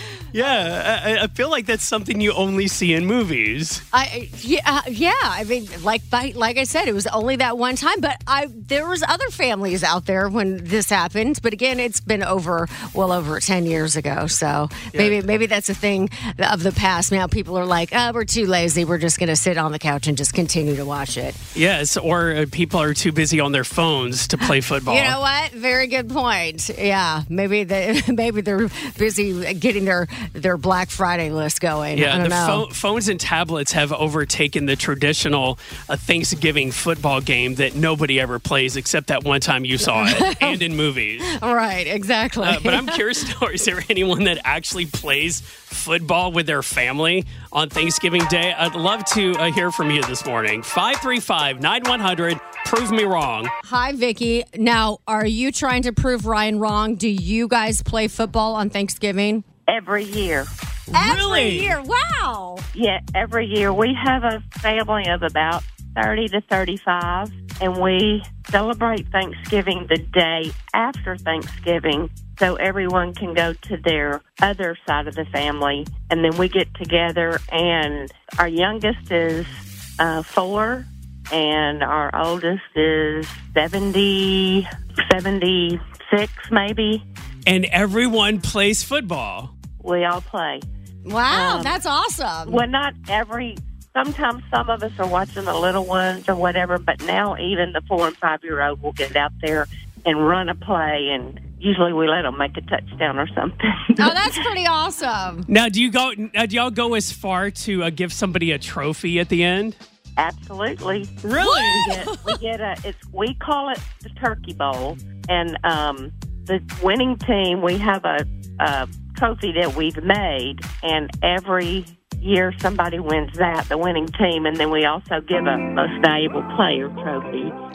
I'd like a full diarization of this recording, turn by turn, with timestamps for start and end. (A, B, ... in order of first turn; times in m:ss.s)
0:00.3-0:03.8 A
0:03.9-0:21.4 B
0:14.9-0:15.2 A
0:21.5-0:25.2 A
0:24.9-0:32.6 B
0:31.9-0:41.3 A
0:39.8-0:40.6 B
0:41.2-0:43.0 B
0:42.4-0:53.5 A
0:53.6-0:59.4 B
0:59.7-1:00.5 C
1:00.9-1:01.8 A
1:00.9-1:02.6 B
1:02.7-1:27.0 C
1:27.4-1:29.5 A
1:29.8-1:30.6 C
1:31.0-1:32.6 B
1:31.3-1:31.8 C
1:32.5-1:44.4 C
1:44.0-1:45.5 B
1:45.5-1:49.8 A
1:50.2-2:07.5 C
1:51.2-1:52.0 A
1:51.5-1:52.0 B